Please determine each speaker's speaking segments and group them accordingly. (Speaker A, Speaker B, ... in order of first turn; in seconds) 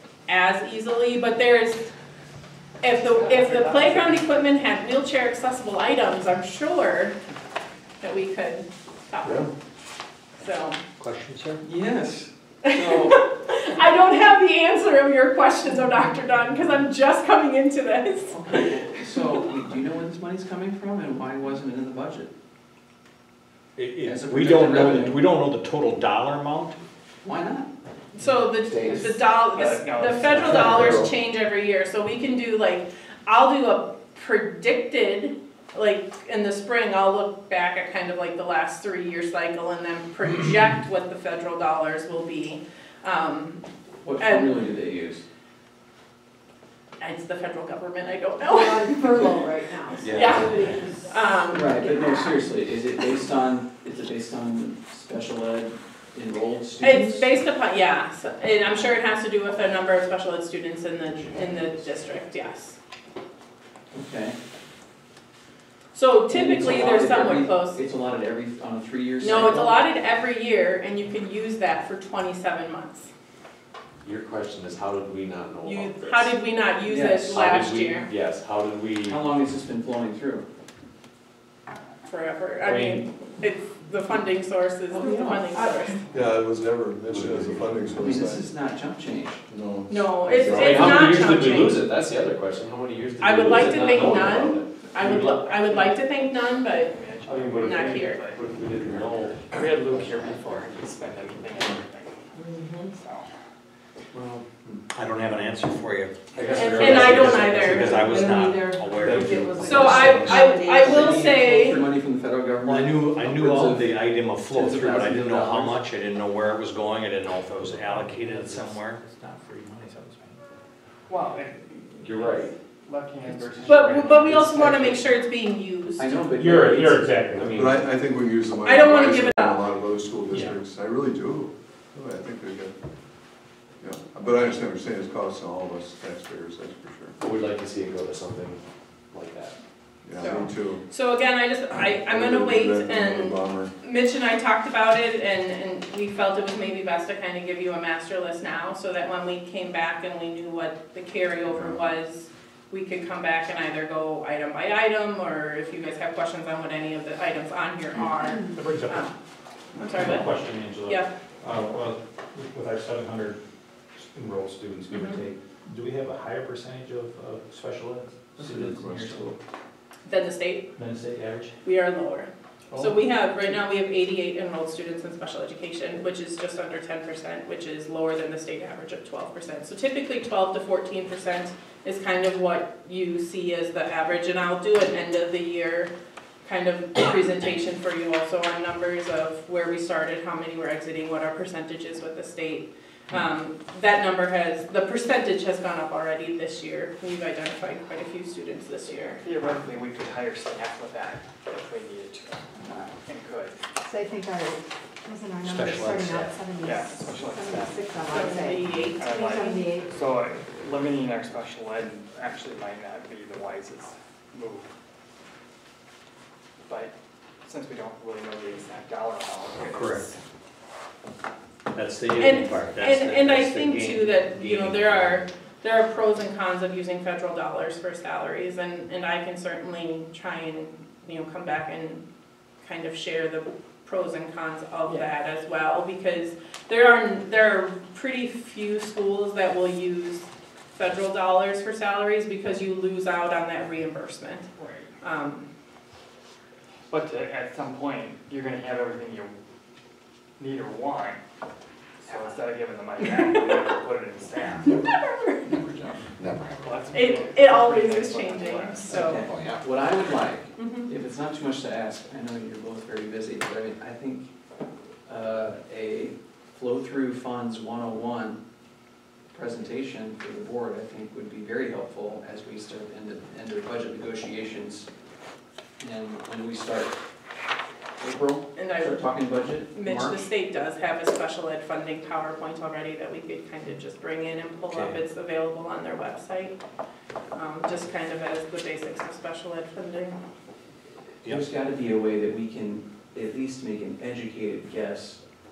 Speaker A: 0.3-1.9, 2.8-7.2, 8.0-9.5, 10.4-10.8, 12.7-19.2, 28.1-43.6, 44.2-44.6, 47.0-52.4, 56.8-62.8, 65.9-67.8, 69.2-73.1, 75.6-78.1, 82.0-86.0, 89.9-91.8, 93.2-97.0, 97.6-98.2, 106.5-107.9, 109.6-111.8, 123.7-126.2, 128.7-129.7, 140.2-159.2, 159.8-160.3, 170.1-170.7, 171.6-185.9, 186.4-199.2, 208.1-209.9, 222.2-232.0, 232.6-244.5, 245.0-245.5, 254.9-255.4, 256.9-259.2, 260.6-260.9, 278.6-279.1, 279.7-286.6, 287.3-290.1
Speaker B: 3.1-4.1, 28.9-31.0, 95.5-103.3, 121.1-125.1, 199.2-203.6, 206.6-208.3, 209.0-214.7, 216.7-216.9, 217.4-220.2, 244.6-244.9, 246.9-249.4, 250.4-251.2, 252.0-254.8, 256.6-259.2
Speaker C: 11.0-11.6, 23.8-25.8, 105.0-110.6, 112.8-120.5, 126.3-127.8, 158.5-159.0, 159.9-163.4, 163.9-169.4, 170.8-171.5, 205.4-206.4, 219.7-220.1, 221.7-225.2
Speaker D: 11.6-13.2, 18.3-22.3, 24.0-25.2, 27.2-27.7, 44.0-45.2, 51.5-57.3, 63.9-64.4, 66.3-69.8, 76.8-77.6, 79.0-80.5, 84.9-85.5, 88.0-89.4, 110.7-114.0, 114.5-115.7, 123.3-123.6, 126.0-127.5, 258.9-264.3, 265.1-268.4, 269.3-274.9, 275.8-276.9, 278.0-280.3, 291.2-295.2
Speaker E: 23.8-26.7, 105.0-106.0, 107.9-108.4, 112.7-114.3, 115.8-119.0
Speaker F: 30.5-31.1, 50.0-50.6, 74.0-76.3, 77.3-79.2, 87.1-87.8, 90.3-95.5, 97.3-100.6, 104.1-104.4, 106.3-108.1, 108.9-110.1, 114.7-115.7, 122.0-122.5, 137.2-138.6, 139.1-139.6, 255.5-257.0, 259.2-259.9
Speaker G: 48.4-51.3, 102.4-102.9, 107.9-111.2, 203.8-209.9
Speaker H: 86.1-88.5, 89.5-91.2, 127.5-132.7, 133.8-137.2, 140.0-140.8, 142.1-143.7, 168.4-169.2